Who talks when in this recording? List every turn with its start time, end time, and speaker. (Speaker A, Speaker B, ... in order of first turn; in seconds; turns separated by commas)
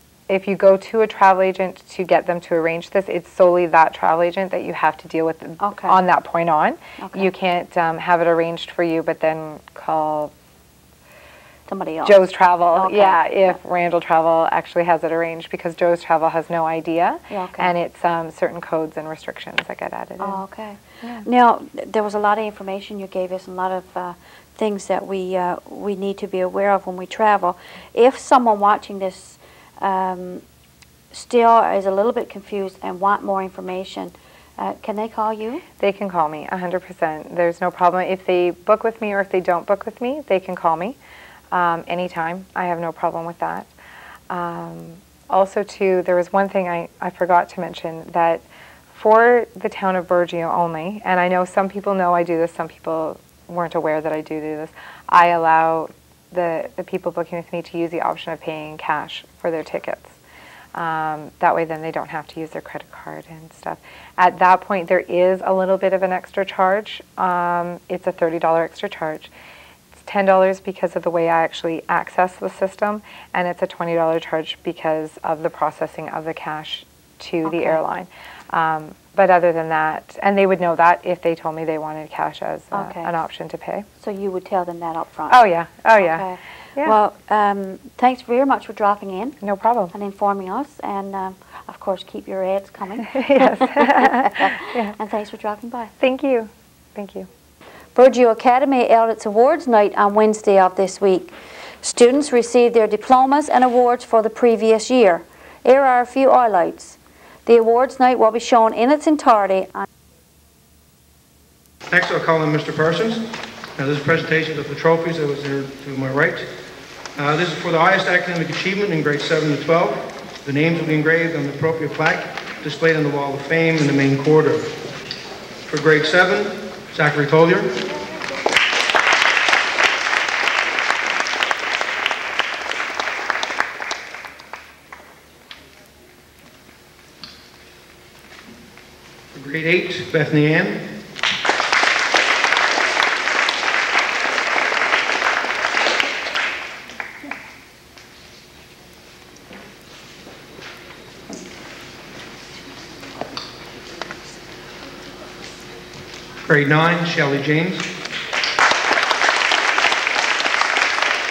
Speaker A: 0.3-10.3, Speaker B: 5.6-6.0, Speaker B: 7.0-7.3, Speaker B: 11.7-13.6, Speaker A: 12.1-20.4, Speaker B: 17.3-17.7, Speaker B: 20.2-30.4, Speaker B: 31.1-35.6, Speaker A: 35.8-41.0, Speaker A: 41.5-43.7, Speaker A: 44.3-60.1, Speaker A: 60.8-69.3, Speaker A: 70.1-83.9, Speaker B: 77.4-77.8, Speaker B: 82.7-83.1, Speaker B: 84.0-89.4, Speaker A: 85.3-86.2, Speaker A: 89.4-89.9, Speaker B: 89.9-95.9, Speaker A: 93.1-95.0, Speaker A: 96.0-97.3, Speaker B: 98.0-109.9, Speaker C: 111.9-113.3, Speaker C: 113.8-116.5, Speaker C: 117.2-124.7, Speaker C: 125.7-127.8, Speaker C: 139.3-140.9, Speaker C: 156.5-157.9